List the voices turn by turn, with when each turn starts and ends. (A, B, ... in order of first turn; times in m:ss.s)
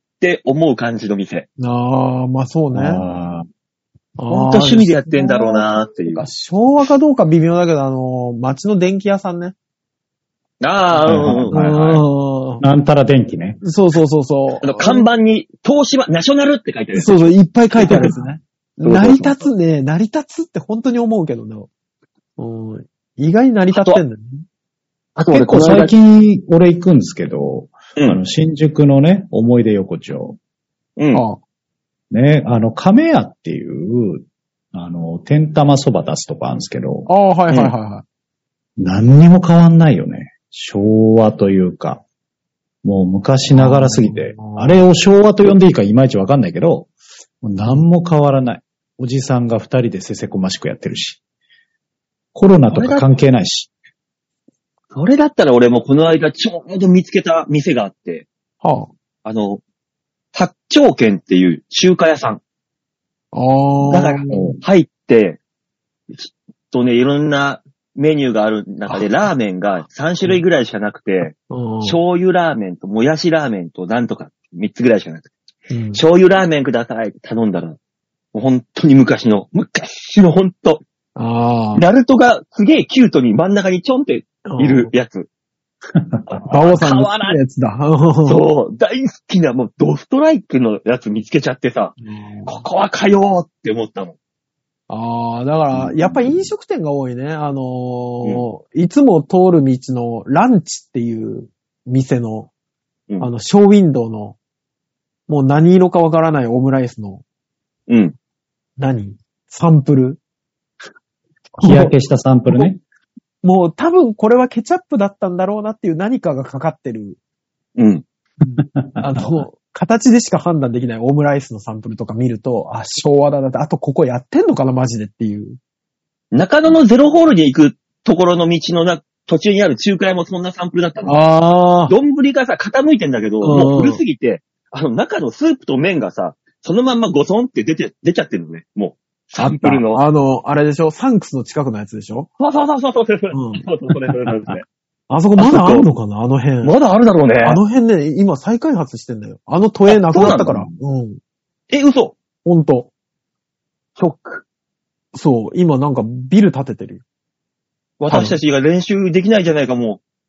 0:00.2-0:01.5 A
0:01.6-0:03.0 B
0:02.7-0:03.4 C
0:04.2-0:09.5 B
0:04.3-0:06.3 A
0:10.6-0:11.6 A
0:11.0-0:12.0 C
0:11.5-0:12.6 B
0:12.6-0:13.6 C
0:13.6-0:15.1 B
0:14.6-0:18.1 A
0:16.9-0:21.7 B
0:17.9-0:18.2 C
0:18.8-0:19.4 A
0:22.4-0:24.4 B
0:23.7-0:24.0 A
0:25.2-0:25.9 A
0:25.3-0:30.4 C
0:28.0-0:28.2 A
0:31.0-0:31.2 A
0:31.1-0:31.4 B
0:32.1-0:37.1 C
0:37.1-0:38.0 B
0:38.8-0:42.0 C
0:42.8-0:51.2 C
0:43.5-0:44.8 B
0:52.3-0:53.7 C
0:52.7-0:53.1 A
0:54.9-0:58.3 A
0:58.6-0:58.9 B
0:59.2-0:59.6 A
1:00.3-1:02.4 A
1:03.3-1:04.6 B
1:03.9-1:05.4 A
1:04.3-1:04.6 C
1:06.1-1:15.3 A
1:11.5-1:12.0 B
1:15.7-1:16.0 B
1:15.9-1:17.8 A
1:18.3-1:20.8 A
1:21.2-1:21.8 B
1:21.7-1:25.3 A
1:24.5-1:24.9 B
1:25.9-1:26.4 C
1:26.3-1:27.4 A
1:26.5-1:28.4 B
1:28.2-1:34.2 A
1:32.0-1:32.6 B
1:34.9-1:42.5 B
1:35.7-1:36.5 C
1:43.2-1:44.4 B
1:45.3-1:47.2 B
1:47.9-1:48.2 A
1:48.8-1:50.2 B
1:51.5-1:51.9 B
1:51.6-1:52.8 C
1:53.4-1:57.2 B
1:57.8-1:58.0 A
1:58.5-1:59.4 C
1:59.0-2:05.6 B
2:06.3-2:11.2 A
2:11.0-2:11.9 B
2:11.9-2:20.0 A
2:13.4-2:14.0 B
2:19.4-2:22.3 B
2:22.4-2:24.6 A
2:23.3-2:23.6 B
2:25.1-2:26.7 B
2:25.4-2:25.9 A
2:26.6-2:27.6 A
2:27.4-2:31.2 B
2:29.9-2:30.6 A
2:31.7-2:32.2 A
2:32.4-2:32.9 B
2:34.0-2:34.4 A
2:35.1-2:37.0 B
2:38.0-2:40.0 A
2:38.1-2:38.4 B